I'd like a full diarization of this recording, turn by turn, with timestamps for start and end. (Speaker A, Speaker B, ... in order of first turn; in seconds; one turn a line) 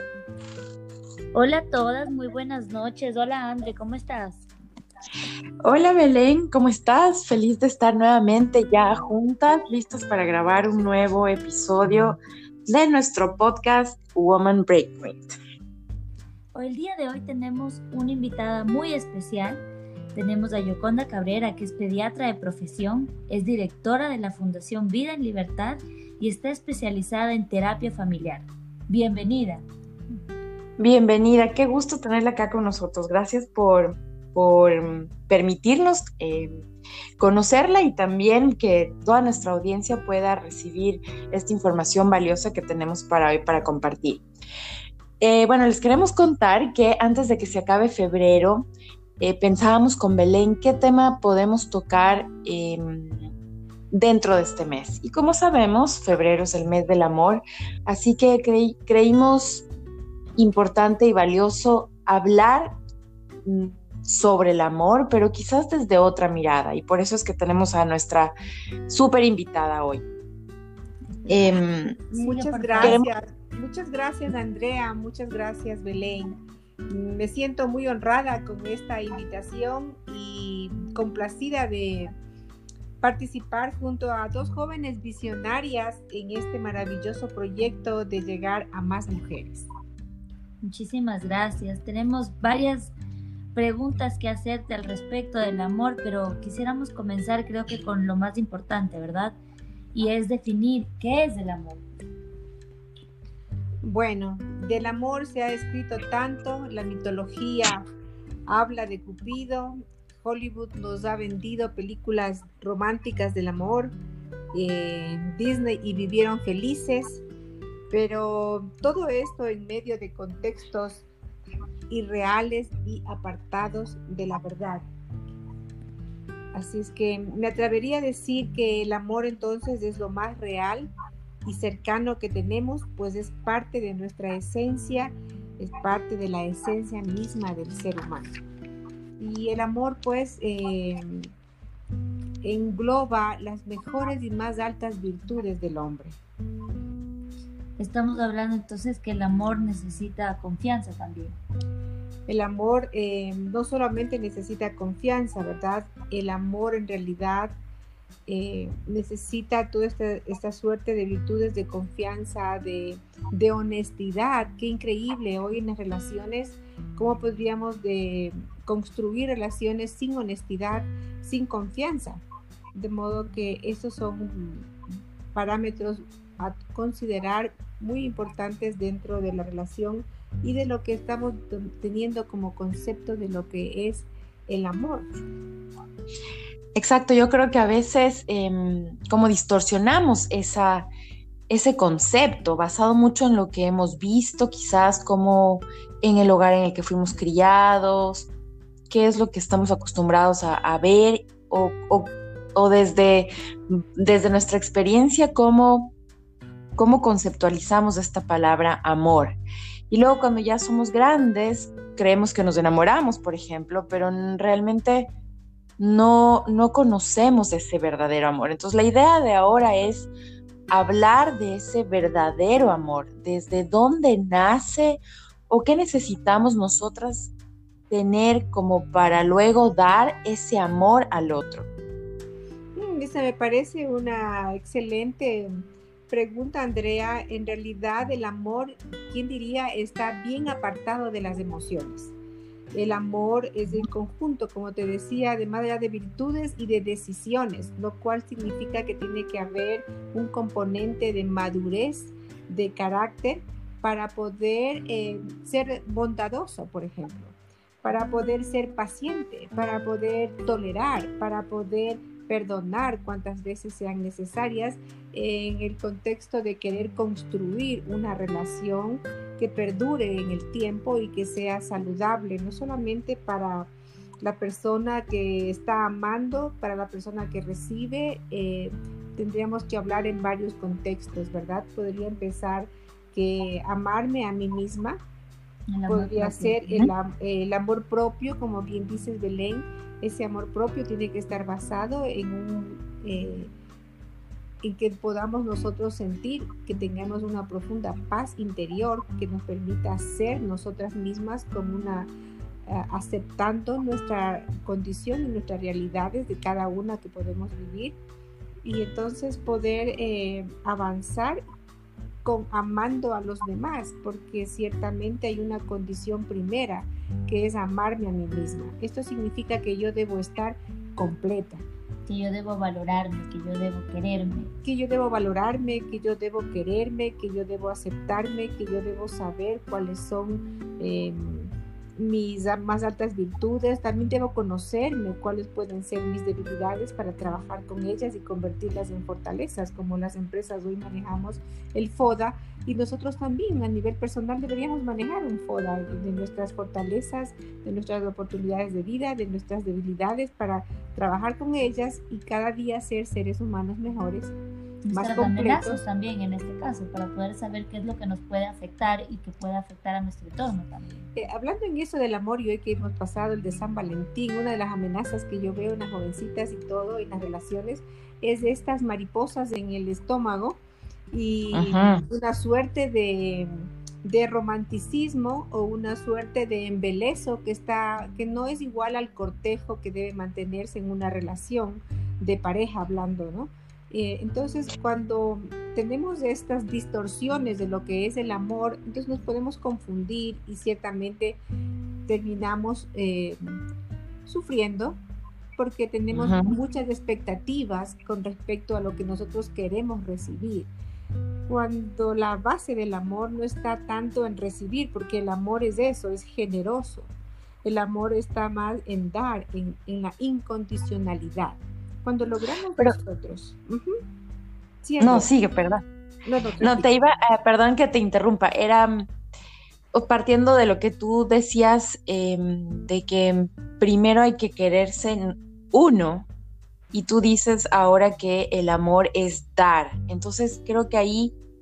Speaker A: 1.3-4.5
Speaker B: 5.6-15.4
Speaker A: 16.5-29.6
Speaker B: 30.8-36.6
Speaker B: 37.2-44.2
Speaker B: 45.2-48.7
Speaker B: 49.2-53.3
Speaker B: 53.9-59.6
Speaker B: 60.4-62.7
Speaker B: 63.4-68.3
Speaker B: 68.9-70.0
Speaker B: 71.3-72.0
Speaker C: 72.1-82.1
Speaker A: 72.1-73.0
Speaker C: 83.0-89.7
Speaker A: 90.6-92.9
Speaker A: 93.5-99.4
Speaker A: 99.9-101.8
Speaker C: 103.8-107.8
Speaker C: 108.5-113.9
Speaker C: 114.5-117.2
Speaker C: 117.9-121.0
Speaker C: 121.9-124.8
Speaker C: 126.5-130.9
Speaker C: 131.4-138.3
Speaker C: 139.2-141.3
Speaker C: 142.4-146.2
Speaker A: 147.8-151.4
Speaker C: 152.3-157.5
Speaker C: 158.3-174.7
Speaker C: 175.3-185.1
Speaker B: 186.7-190.9
Speaker B: 191.5-198.3
Speaker B: 198.9-205.9
Speaker B: 206.8-209.4
Speaker B: 209.9-215.1
Speaker B: 215.8-220.1
Speaker B: 220.7-227.3
Speaker B: 227.9-231.7
Speaker C: 232.8-242.1
Speaker C: 242.7-273.7
Speaker C: 274.2-285.0
Speaker A: 285.7-286.9
Speaker C: 285.9-293.5
Speaker C: 294.6-302.1
Speaker C: 302.6-308.0
Speaker C: 308.6-311.4
Speaker C: 312.2-321.6
Speaker A: 322.1-324.5
Speaker C: 324.6-354.3
Speaker A: 354.8-361.0
Speaker C: 354.9-355.8
Speaker C: 361.1-370.6
Speaker C: 371.1-391.4
Speaker B: 371.5-372.0
Speaker C: 392.1-393.6
Speaker C: 394.2-395.0
Speaker C: 395.6-400.7
Speaker B: 396.1-396.6
Speaker C: 401.5-407.1
Speaker C: 407.6-414.0
Speaker C: 414.8-415.3
Speaker B: 415.0-415.8
Speaker C: 416.2-416.9
Speaker B: 416.6-419.1
Speaker B: 419.9-426.3
Speaker B: 426.9-431.3